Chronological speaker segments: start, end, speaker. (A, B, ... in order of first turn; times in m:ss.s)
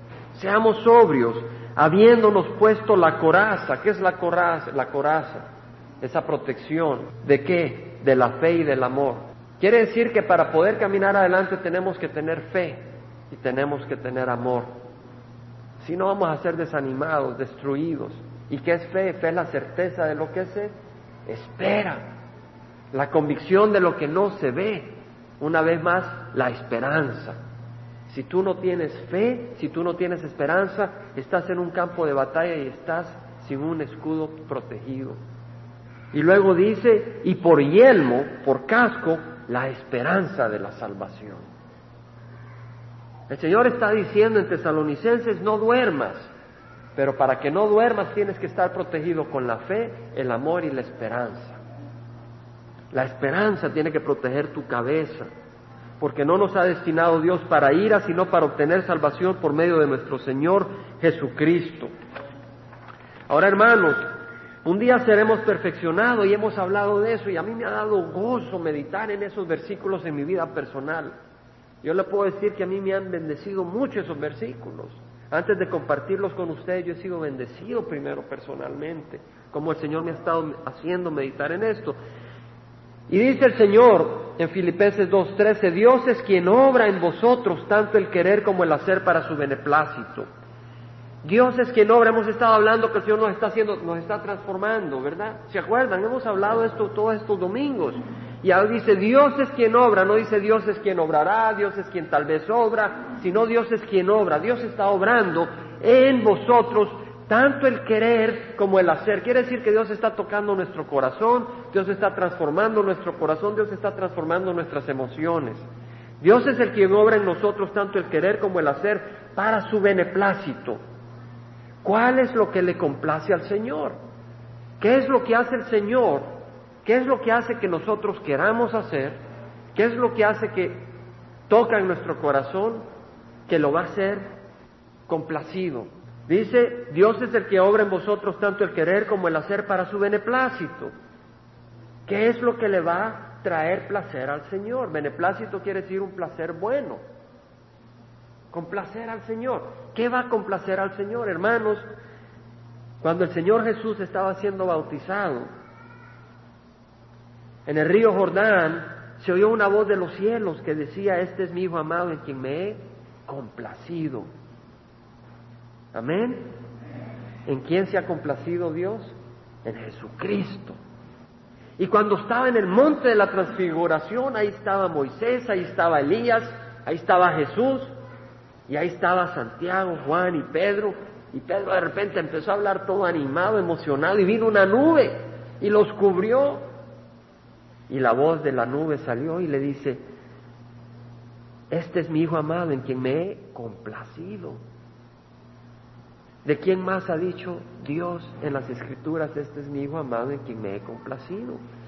0:00.3-0:05.4 A
0:06.0-0:14.7 A
0:15.8-0:20.7 A
0:21.3-0:22.0 A
0:22.9-0:27.4 A
0:28.1-0:35.2 A
0:36.1-0:41.5 A
0:43.3-0:46.3 A
0:47.0-0:51.6 A
0:52.9-0:55.3 A
0:56.0-1:01.9 A
1:03.3-1:04.0 A
1:04.6-1:11.2 A
1:11.8-1:22.0 A
1:23.1-1:30.3 A
1:31.2-1:55.6 A
1:56.2-2:00.8 A
2:01.8-2:04.0 A
2:04.8-2:06.3 A
2:06.8-2:09.2 A
2:09.8-2:10.9 A
2:11.5-2:12.8 A
2:13.5-2:14.2 A
2:15.1-2:20.9 A
2:22.1-2:27.0 A
2:28.5-2:31.8 A
2:33.0-2:35.5 A
2:37.7-2:44.3 A
2:45.9-2:46.5 A
2:47.5-2:49.1 A
2:49.6-2:50.8 A
2:51.8-2:57.9 A
2:58.7-3:06.6 A
3:07.9-3:10.0 A
3:11.7-3:14.6 A
3:16.4-3:21.6 A